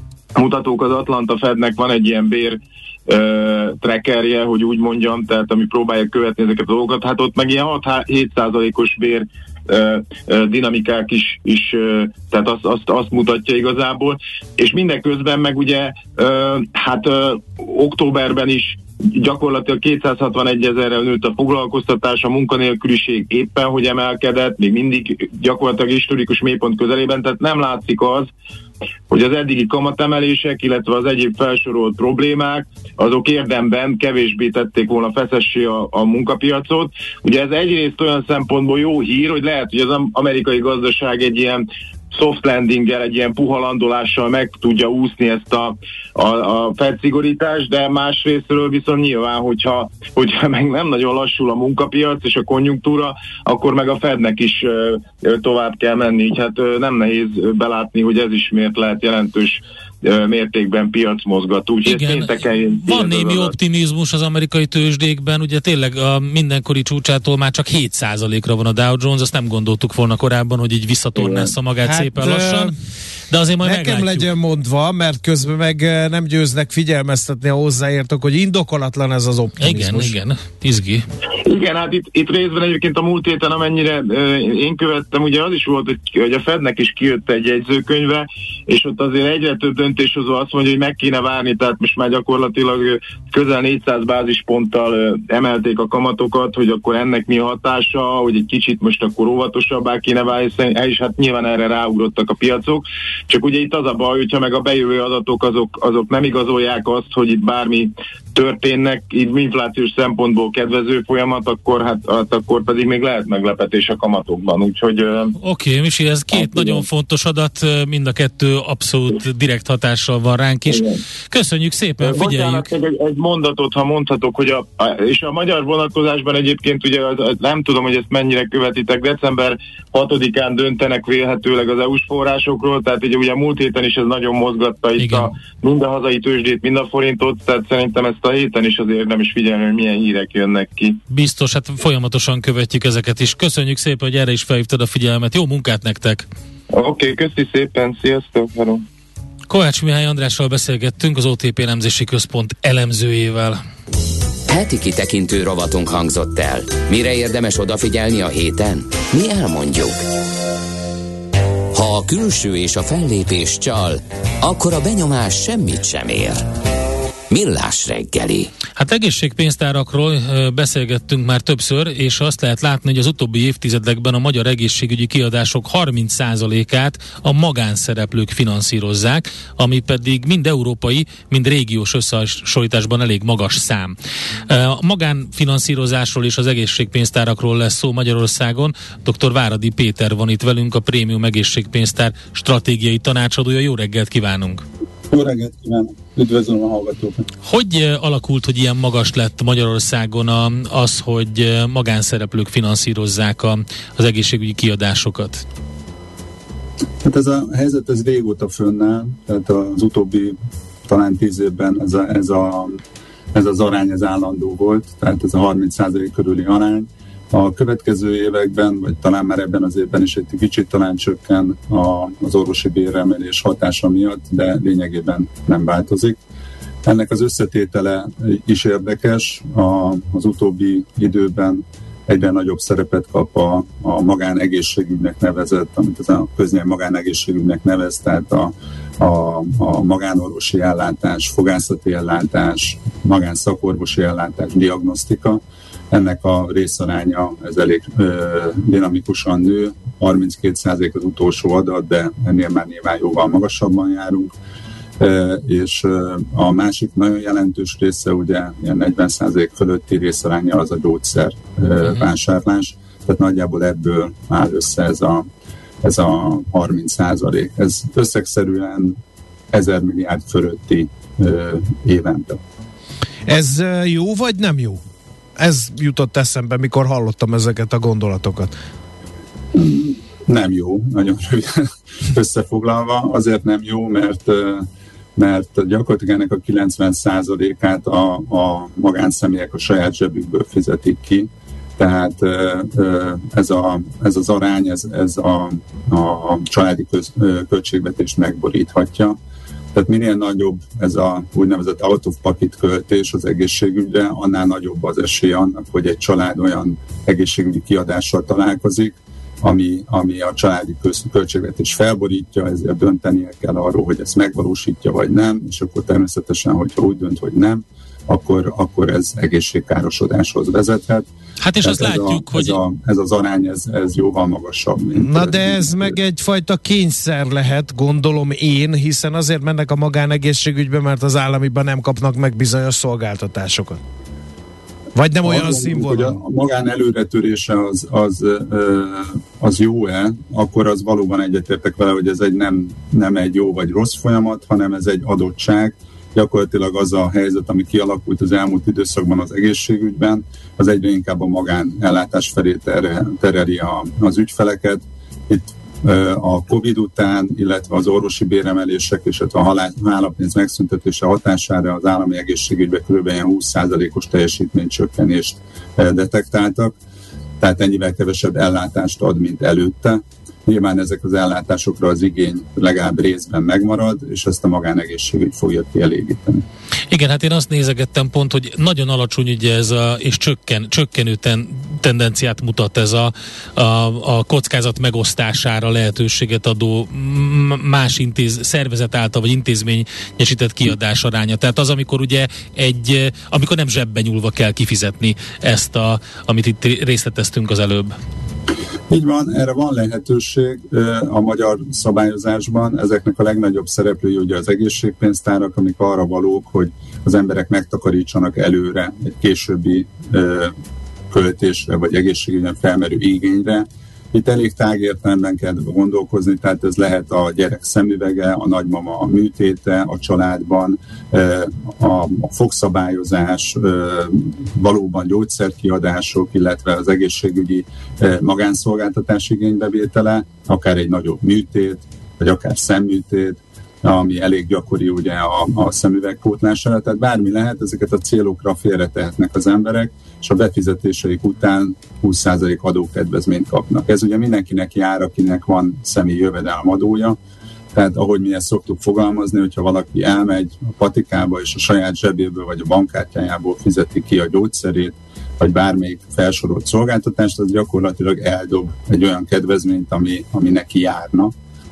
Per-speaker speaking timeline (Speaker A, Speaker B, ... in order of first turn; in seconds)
Speaker A: 0.3-28.3, 29.1-63.5, 81.5-115.3, 116.3-116.8, 122.0-141.0, 146.7-148.8
Speaker B: 61.9-72.7, 73.3-74.3, 79.6-81.1, 115.4-122.7, 135.0-135.3, 141.1-146.3, 149.5-153.6, 168.8-183.9, 184.5-194.6, 197.4-205.4, 321.4-322.6, 376.9-398.0
Speaker C: 71.8-72.8, 73.6-80.1, 273.3-274.8, 275.4-278.5, 325.0-333.8, 334.9-336.2
Speaker D: 154.5-160.0, 161.7-166.4, 167.3-168.5
Speaker E: 195.1-197.3, 207.0-212.8, 213.3-226.2, 226.8-254.3, 255.0-265.3, 265.8-269.0, 269.5-272.4, 279.5-299.2, 299.7-321.1, 321.6-325.9, 335.2-366.8, 367.4-376.4, 398.9-410.6, 411.1-447.2, 447.7-461.4